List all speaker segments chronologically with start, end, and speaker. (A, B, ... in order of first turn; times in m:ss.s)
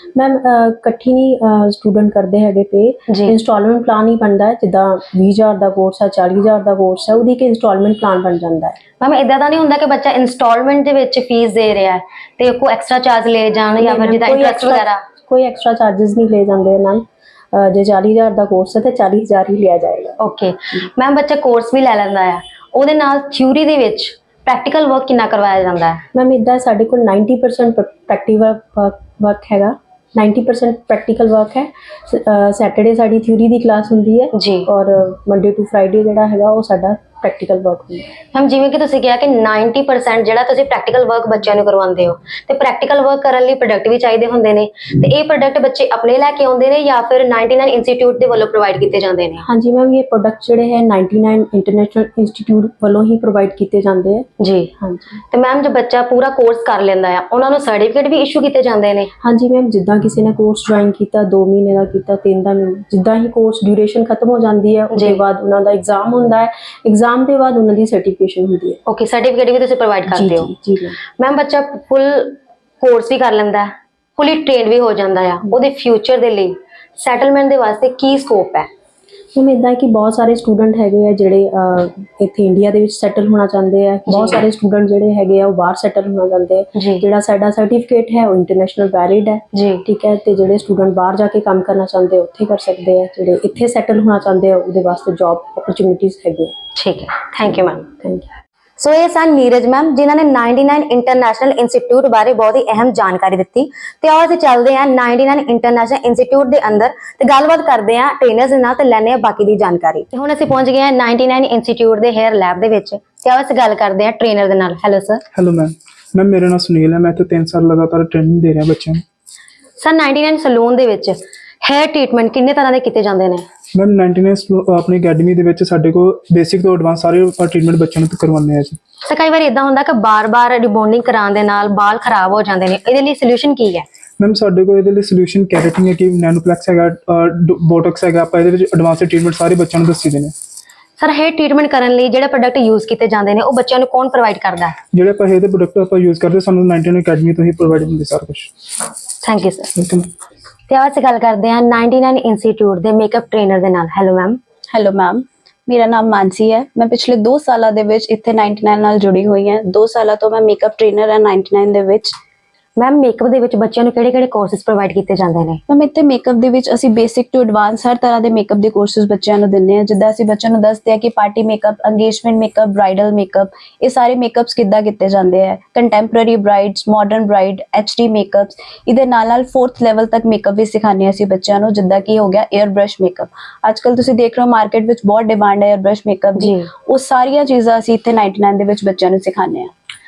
0:00.2-0:08.8 A
0:03.1-0:03.4 B
0:09.0-0:15.0 B
0:13.8-0:20.2 A
0:20.2-0:26.0 B
0:26.1-0:38.1 A
0:34.3-0:34.7 B
0:38.3-0:49.4 B
0:49.4-0:54.3 A
0:54.4-0:54.7 B
0:54.8-0:55.2 A
0:55.3-0:59.1 B
0:59.2-1:08.8 A
1:05.0-1:05.2 B
1:08.9-1:10.5 B
1:10.1-1:11.0 A
1:11.2-1:18.7 B
1:19.3-1:36.6 A
1:24.1-1:24.4 B
1:26.8-1:27.0 B
1:29.5-1:29.8 B
1:36.8-1:37.8 B
1:38.0-1:38.3 A
1:38.8-1:55.2 B
1:55.3-1:59.0 C
1:59.8-2:03.5 B
2:03.8-2:08.8 C
2:09.0-2:13.8 B
2:14.2-2:20.3 C
2:21.0-2:24.8 B
2:24.9-2:28.5 C
2:29.2-2:29.7 B
2:29.8-2:30.1 C
2:30.7-2:34.4 B
2:34.7-2:42.2 D
2:42.8-2:45.6 B
2:45.7-3:09.7 D
3:06.4-3:06.7 B